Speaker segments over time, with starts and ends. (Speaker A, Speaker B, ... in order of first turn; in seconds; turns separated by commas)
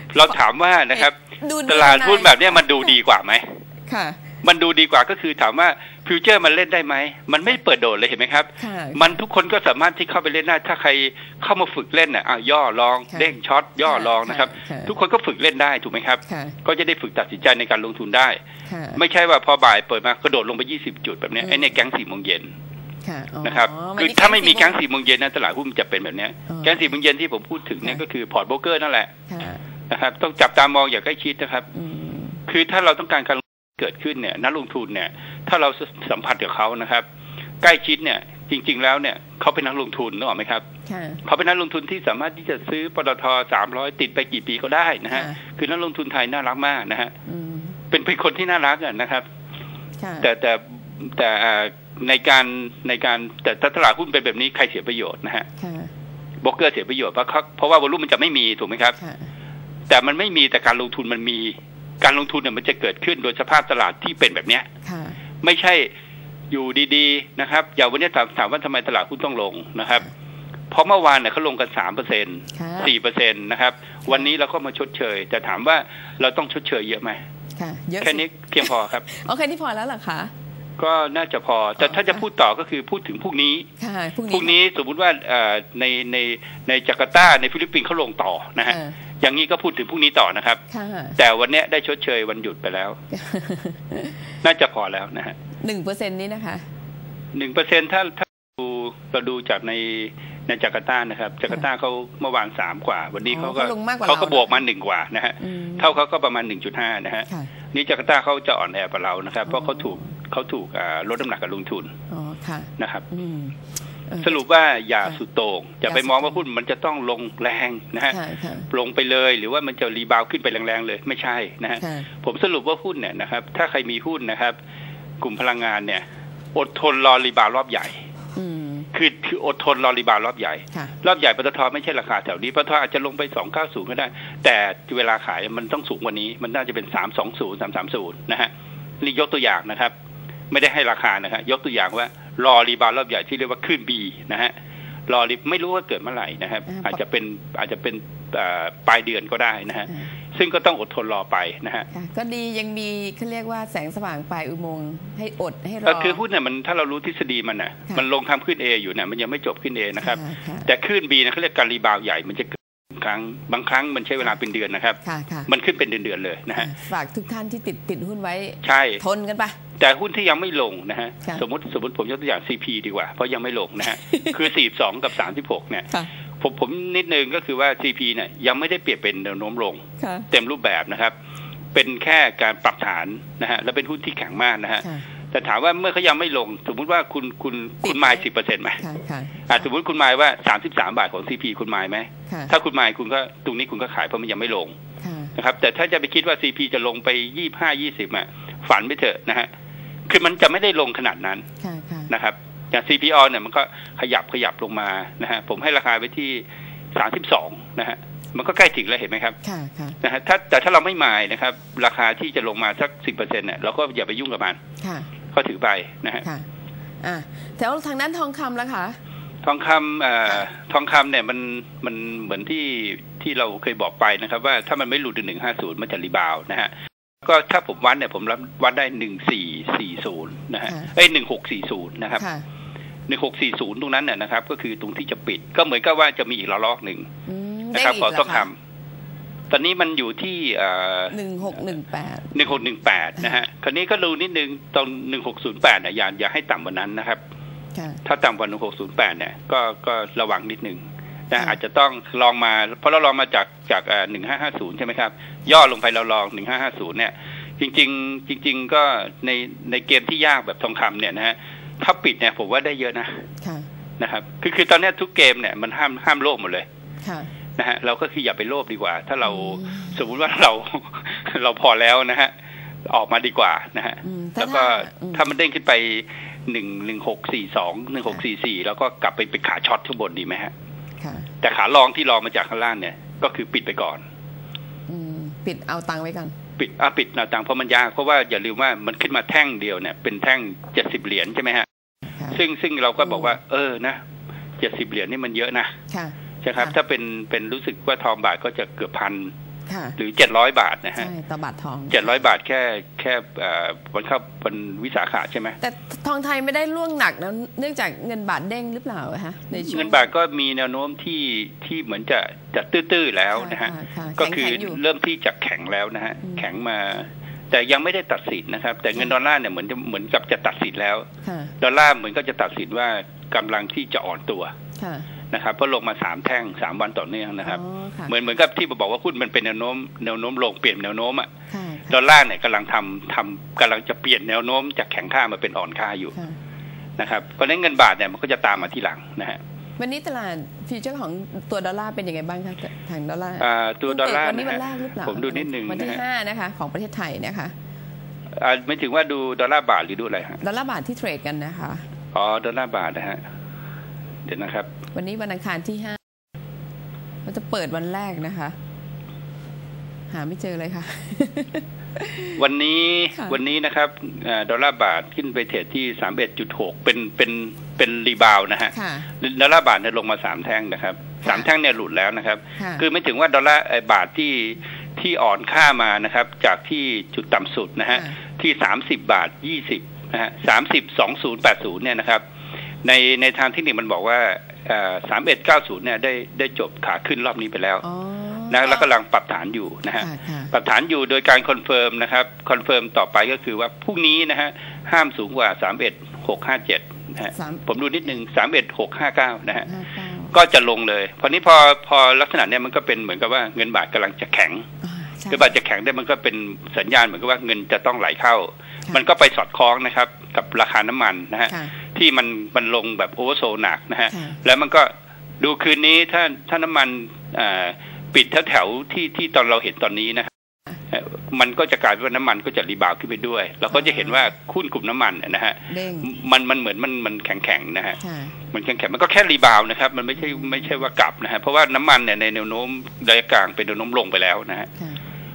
Speaker A: 0.1-3.6, Speaker B: 0.9-2.9, Speaker B: 3.9-4.2, Speaker A: 4.4-18.4, Speaker B: 8.6-9.2, Speaker B: 13.1-14.9, Speaker B: 16.3-16.6, Speaker B: 18.7-19.0, Speaker A: 18.9-22.5, Speaker B: 21.4-21.7, Speaker B: 23.0-24.8, Speaker A: 23.4-29.1, Speaker B: 26.5-26.7, Speaker B: 29.3-29.6, Speaker A: 29.9-31.7, Speaker B: 31.7-32.4, Speaker A: 32.5-37.0, Speaker A: 37.6-40.6, Speaker B: 40.9-41.2, Speaker A: 41.2-47.1, Speaker B: 45.1-45.4, Speaker B: 47.2-47.8, Speaker A: 47.9-49.2, Speaker B: 50.0-50.3, Speaker A: 50.2-55.5, Speaker B: 55.6-55.9, Speaker A: 56.4-59.0, Speaker B: 59.0-59.3, Speaker A: 59.9-64.7, Speaker B: 64.8-65.2, Speaker A: 65.4-65.9, Speaker A: 66.5-70.1, Speaker A: 70.7-77.2, Speaker B: 72.5-72.9, Speaker B: 77.5-80.3, Speaker A: 78.0-79.0, Speaker A: 80.8-83.7, Speaker B: 81.8-82.2, Speaker B: 83.8-84.5, Speaker A: 84.3-90.6, Speaker B: 88.7-89.0, Speaker B: 90.7-91.2, Speaker A: 91.2-93.0, Speaker B: 93.1-94.2, Speaker A: 94.4-95.3, Speaker B: 95.6-96.6, Speaker A: 97.3-111.9, Speaker B: 103.2-104.6, Speaker B: 105.4-105.9, Speaker B: 109.5-110.0, Speaker B: 112.1-113.5, Speaker A: 112.8-113.1, Speaker B: 114.1-114.3, Speaker A: 114.2-118.2, Speaker B: 115.9-116.4, Speaker B: 118.1-118.7, Speaker A: 118.7-124.5, Speaker B: 121.8-122.1, Speaker A: 125.2-126.0, Speaker A: 126.5-128.0, Speaker B: 128.3-128.9, Speaker A: 128.9-139.9, Speaker A: 140.5-144.5, Speaker A: 145.1-151.9, Speaker B: 146.7-147.0, Speaker B: 151.9-156.2, Speaker A: 155.8-166.7, Speaker B: 160.0-160.7, Speaker B: 165.0-165.5, Speaker B: 166.6-169.6, Speaker A: 168.6-169.0, Speaker A: 169.8-181.1, Speaker B: 173.9-174.4, Speaker B: 180.0-180.3, Speaker A: 181.7-188.8, Speaker B: 187.8-188.2, Speaker B: 188.8-189.5, Speaker A: 189.5-194.8, Speaker B: 195.0-195.3, Speaker A: 195.3-199.5, Speaker A: 200.1-201.5, Speaker B: 201.6-202.1, Speaker A: 202.1-209.4, Speaker B: 209.4-210.0, Speaker A: 210.0-214.6, Speaker B: 214.8-215.1, Speaker A: 215.3-216.2, Speaker B: 217.0-219.0, Speaker A: 219.4-226.7, Speaker A: 227.2-232.2, Speaker B: 232.2-232.4, Speaker A: 233.1-237.1, Speaker B: 237.3-238.5, Speaker A: 237.7-238.5, Speaker A: 239.5-241.2, Speaker B: 241.1-242.4, Speaker A: 242.3-247.2, Speaker B: 247.7-248.0, Speaker A: 248.0-263.3, Speaker B: 263.4-263.7, Speaker A: 264.0-266.6, Speaker B: 267.0-267.3, Speaker A: 267.6-272.3, Speaker B: 269.3-270.0, Speaker A: 272.9-280.5, Speaker B: 274.0-275.3, Speaker B: 281.0-281.3, Speaker A: 281.4-284.0, Speaker B: 284.9-286.3, Speaker A: 286.6-291.7, Speaker B: 292.1-292.4, Speaker A: 292.3-294.0, Speaker A: 294.6-295.7, Speaker B: 295.9-296.7, Speaker A: 296.4-299.3, Speaker B: 299.7-300.0, Speaker A: 300.0-301.1, Speaker B: 301.0-302.0, Speaker A: 301.9-305.6, Speaker B: 305.6-310.1, Speaker A: 309.6-321.1, Speaker B: 313.3-314.8, Speaker B: 321.2-321.5, Speaker A: 321.6-324.5, Speaker B: 324.8-325.1, Speaker A: 325.3-331.3, Speaker B: 327.4-328.1, Speaker B: 331.5-332.0, Speaker A: 331.9-336.1, Speaker A: 337.0-339.4, Speaker B: 339.8-347.5, Speaker A: 343.4-346.0, Speaker A: 348.4-350.4, Speaker B: 350.4-351.8, Speaker A: 352.1-353.2, Speaker A: 354.2-354.7, Speaker B: 354.9-356.0, Speaker B: 357.2-358.5, Speaker B: 360.1-362.4, Speaker A: 362.4-382.2, Speaker B: 368.7-369.1, Speaker B: 372.6-372.8, Speaker A: 382.8-387.8, Speaker B: 387.8-388.9, Speaker A: 388.5-399.7, Speaker B: 390.0-390.5, Speaker B: 397.3-398.1, Speaker B: 399.6-400.3, Speaker A: 400.3-404.7, Speaker B: 404.8-405.5, Speaker A: 405.3-420.3, Speaker A: 420.9-428.0, Speaker B: 423.7-424.1, Speaker B: 425.7-426.1, Speaker B: 428.0-428.3, Speaker A: 428.5-434.7, Speaker B: 430.3-430.6